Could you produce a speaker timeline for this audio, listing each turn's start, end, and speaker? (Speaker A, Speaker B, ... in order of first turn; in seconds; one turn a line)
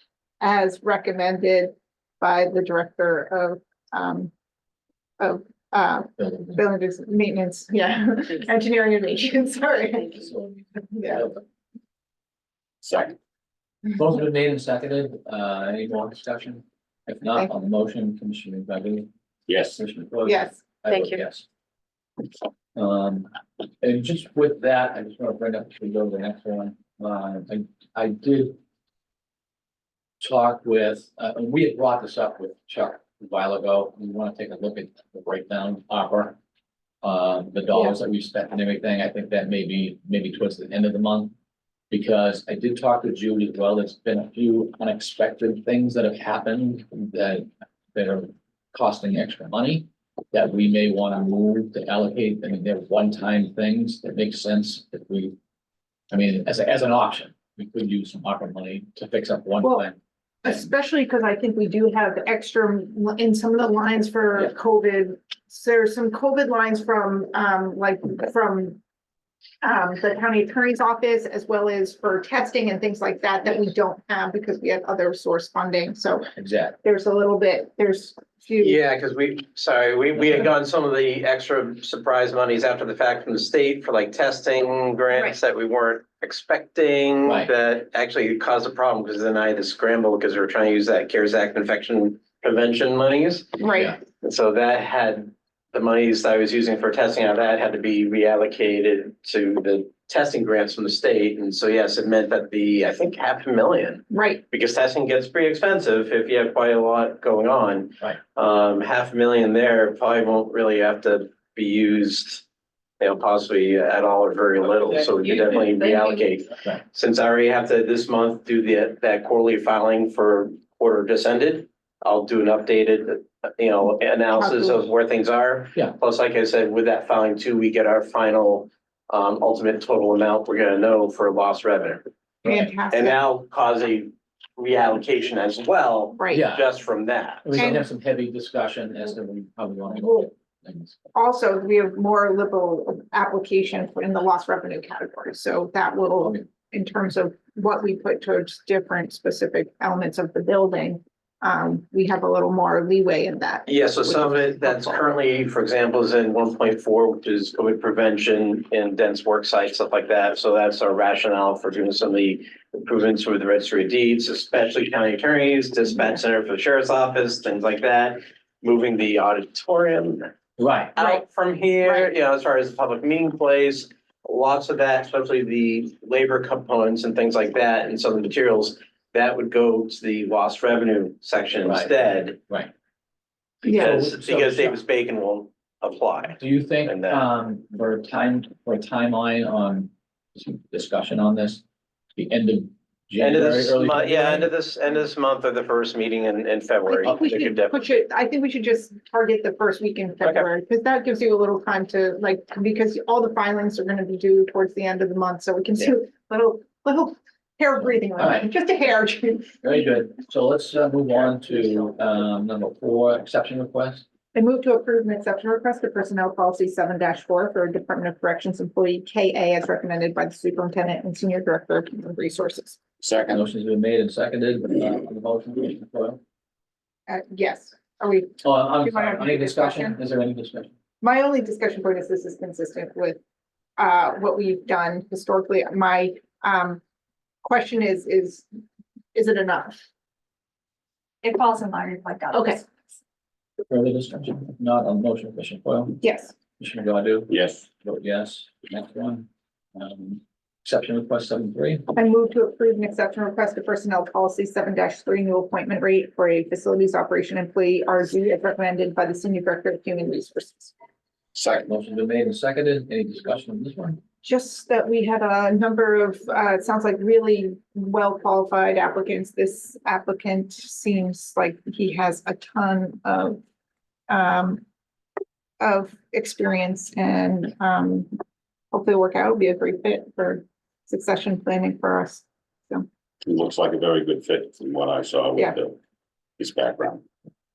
Speaker A: 0.4-4.3
Speaker A: 5.2-11.3
Speaker B: 6.2-6.6
Speaker B: 10.2-11.4
Speaker C: 12.8-13.2
Speaker B: 13.9-19.1
Speaker C: 19.5-19.8
Speaker B: 19.6-21.4
Speaker A: 20.2-20.6
Speaker D: 20.9-21.2
Speaker B: 22.7-23.3
Speaker B: 23.8-28.6
Speaker B: 30.2-36.4
Speaker B: 37.0-41.3
Speaker A: 37.7-38.0
Speaker B: 41.9-55.4
Speaker B: 56.1-60.6
Speaker A: 60.4-68.8
Speaker A: 69.6-76.3
Speaker B: 76.3-76.8
Speaker A: 76.8-78.8
Speaker E: 78.6-112.4
Speaker B: 80.1-80.5
Speaker B: 87.2-87.5
Speaker A: 93.6-94.0
Speaker A: 104.1-104.4
Speaker E: 113.0-132.0
Speaker D: 114.9-116.3
Speaker A: 124.3-124.8
Speaker B: 132.4-132.7
Speaker A: 132.4-133.2
Speaker E: 132.9-137.7
Speaker A: 136.2-136.5
Speaker B: 136.3-136.7
Speaker B: 137.4-140.9
Speaker A: 137.5-137.8
Speaker A: 140.0-140.3
Speaker A: 141.1-155.0
Speaker B: 146.2-146.5
Speaker E: 153.7-170.3
Speaker B: 170.6-170.9
Speaker E: 170.9-182.4
Speaker B: 181.6-181.9
Speaker B: 183.6-184.8
Speaker A: 183.6-184.0
Speaker E: 183.7-187.2
Speaker B: 186.4-191.6
Speaker B: 192.2-194.5
Speaker E: 193.2-197.8
Speaker A: 196.9-209.6
Speaker E: 200.2-200.5
Speaker B: 208.2-208.4
Speaker B: 209.6-214.0
Speaker A: 214.3-222.8
Speaker C: 223.0-223.4
Speaker B: 223.3-226.2
Speaker A: 227.1-230.0
Speaker B: 228.4-230.7
Speaker A: 231.0-233.2
Speaker A: 233.8-236.8
Speaker A: 237.4-238.5
Speaker A: 239.1-239.8
Speaker D: 241.2-242.7
Speaker A: 242.3-242.6
Speaker B: 243.7-251.9
Speaker A: 246.0-246.3
Speaker C: 247.3-247.6
Speaker A: 251.9-260.7
Speaker B: 261.3-264.0
Speaker A: 264.2-273.4
Speaker A: 274.1-274.6
Speaker A: 275.6-278.1
Speaker A: 278.7-282.9
Speaker C: 283.2-285.8
Speaker C: 286.4-287.0